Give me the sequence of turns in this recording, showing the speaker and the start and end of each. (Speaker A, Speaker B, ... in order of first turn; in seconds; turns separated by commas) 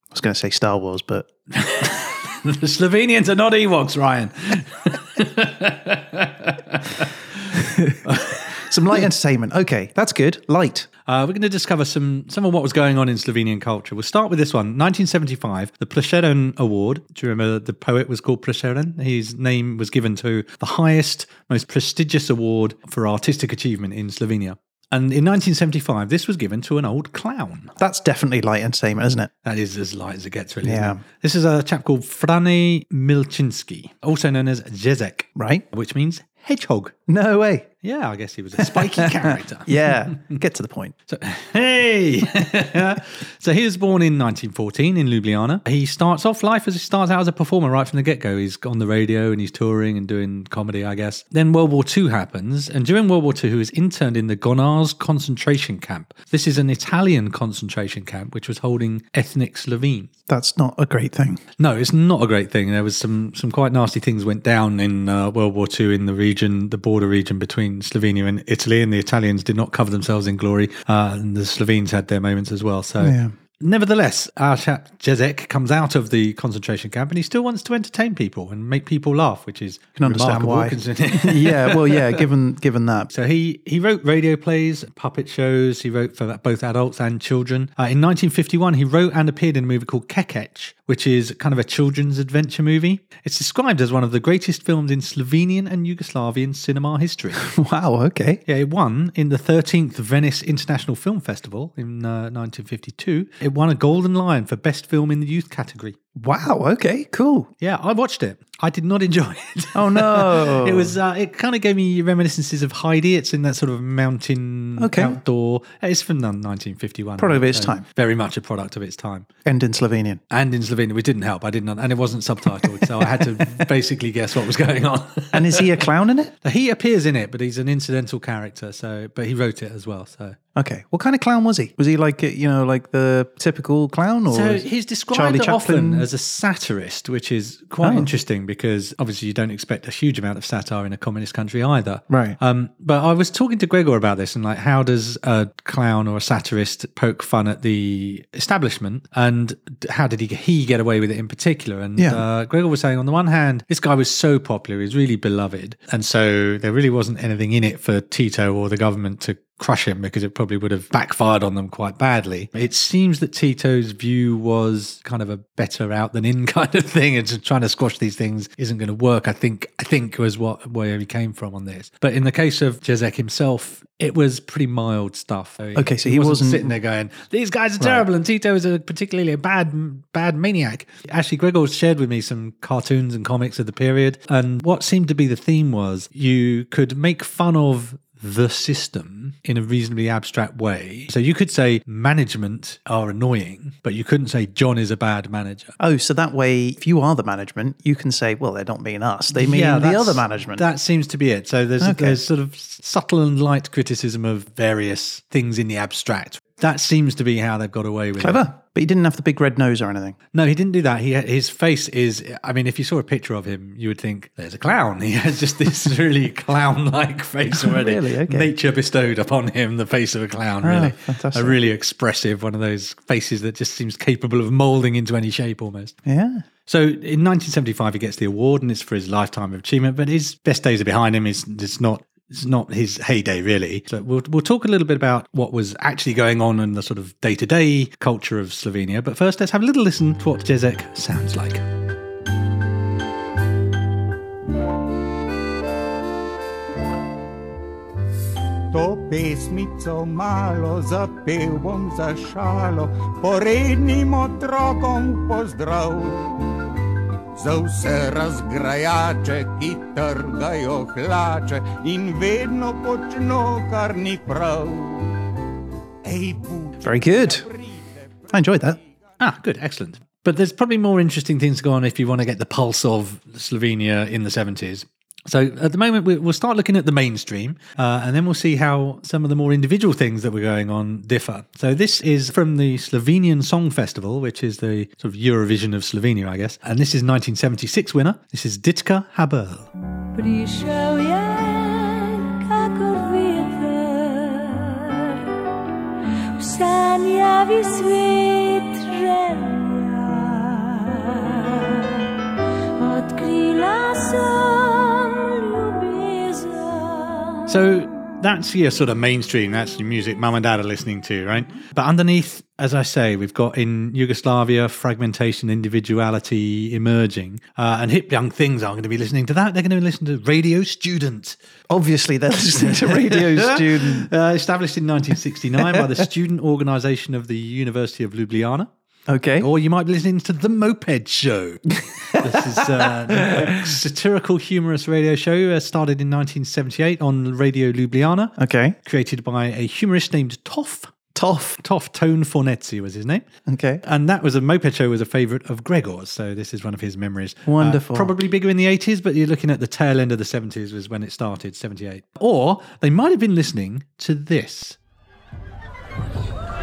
Speaker A: 0.1-1.3, Speaker B: 1.5-7.4, Speaker A: 7.7-8.0, Speaker B: 8.0-8.4, Speaker A: 8.5-10.9, Speaker B: 11.1-27.7, Speaker A: 27.8-29.3, Speaker B: 29.4-37.0, Speaker A: 30.6-31.0, Speaker A: 35.4-35.6, Speaker A: 37.1-37.7, Speaker B: 37.8-40.3, Speaker A: 38.6-40.9, Speaker B: 41.1-60.1, Speaker A: 60.3-61.4, Speaker B: 61.6-82.3, Speaker A: 73.0-73.3, Speaker A: 80.0-83.1, Speaker B: 83.1-97.4, Speaker A: 97.4-98.4, Speaker B: 98.5-106.0, Speaker A: 106.2-107.5, Speaker B: 107.6-119.3, Speaker A: 109.7-111.0, Speaker A: 114.8-115.2, Speaker A: 117.2-117.8, Speaker A: 119.5-120.2, Speaker B: 120.3-125.8, Speaker A: 125.3-126.3, Speaker B: 126.4-130.4, Speaker A: 130.6-136.1, Speaker B: 134.3-195.7, Speaker A: 137.8-138.1, Speaker A: 142.1-142.4, Speaker A: 175.8-176.8, Speaker A: 195.8-200.7, Speaker B: 199.3-208.4, Speaker A: 201.8-202.2, Speaker A: 208.2-210.2, Speaker B: 210.3-226.0, Speaker A: 217.5-218.5, Speaker A: 220.6-221.6, Speaker A: 226.1-226.4, Speaker B: 226.7-241.6, Speaker C: 248.7-256.5, Speaker C: 257.4-265.1, Speaker C: 266.1-267.9, Speaker A: 266.8-267.4, Speaker A: 268.3-268.8, Speaker B: 269.2-289.7, Speaker D: 290.1-295.2, Speaker D: 296.4-302.1, Speaker D: 302.8-307.5, Speaker B: 307.5-321.4, Speaker A: 321.7-324.1, Speaker B: 322.6-328.7, Speaker A: 329.1-329.5, Speaker B: 329.4-340.9, Speaker A: 332.1-333.6, Speaker A: 338.4-338.8, Speaker A: 341.1-341.6, Speaker B: 341.6-343.3, Speaker A: 343.5-343.8, Speaker B: 343.8-354.8, Speaker A: 347.5-348.1